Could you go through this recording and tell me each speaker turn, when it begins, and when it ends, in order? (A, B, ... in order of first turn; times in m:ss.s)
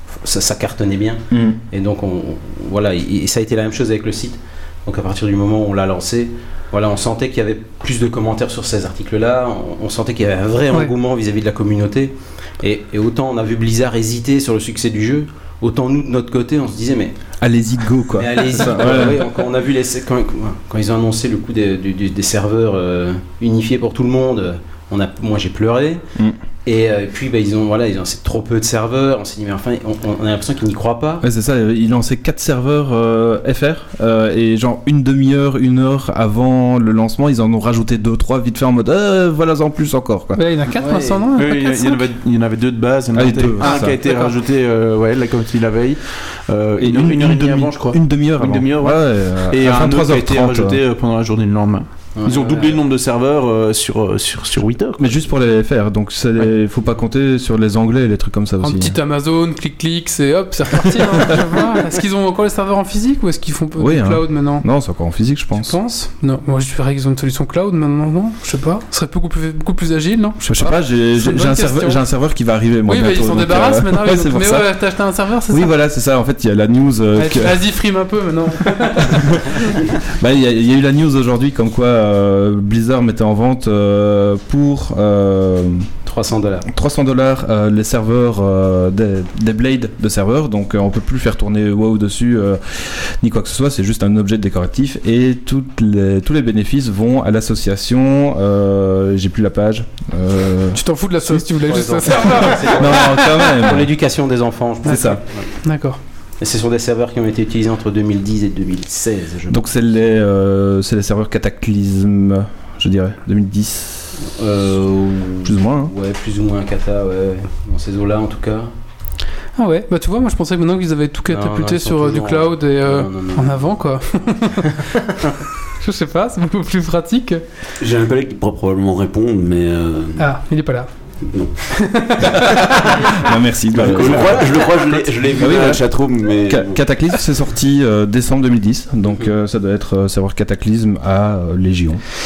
0:00.2-0:17.1 A
0:01.3-0:01.6 B
0:17.4-0:19.2 B
0:18.1-0:26.0 A
0:26.6-0:31.2 A
0:31.2-0:40.4 B
0:40.4-0:42.1 C
0:40.8-0:41.3 A
0:41.4-0:55.1 D
0:43.1-0:44.0 B
0:43.6-0:44.3 C
0:46.8-0:50.8 B
0:52.2-0:52.8 A
0:55.0-0:59.0 B
0:58.6-1:04.6 C
1:03.8-1:05.8 B
1:05.6-1:12.0 C
1:10.4-1:14.8 B
1:12.9-1:15.7 C
1:15.5-1:17.7 B
1:17.2-1:19.8 C
1:18.7-1:25.9 B
1:26.1-1:26.7 A
1:26.7-1:41.4 B
1:40.7-1:43.5 C
1:41.6-1:45.5 A
1:42.4-1:43.9 B
1:44.8-1:45.2 B
1:44.9-1:46.0 C
1:46.4-1:49.6 A
1:49.5-1:54.1 B
1:54.2-1:58.7 A
1:55.4-1:55.9 B
1:59.6-2:05.0 C
2:01.3-2:03.7 A
2:04.3-2:05.4 A
2:05.8-2:07.4 C
2:07.8-2:10.2 E
2:10.2-2:10.9 C
2:11.7-2:12.9 C
2:13.0-2:14.4 B
2:13.7-2:16.8 E
2:13.8-2:15.7 D
2:15.4-2:15.8 B
2:16.5-2:22.0 B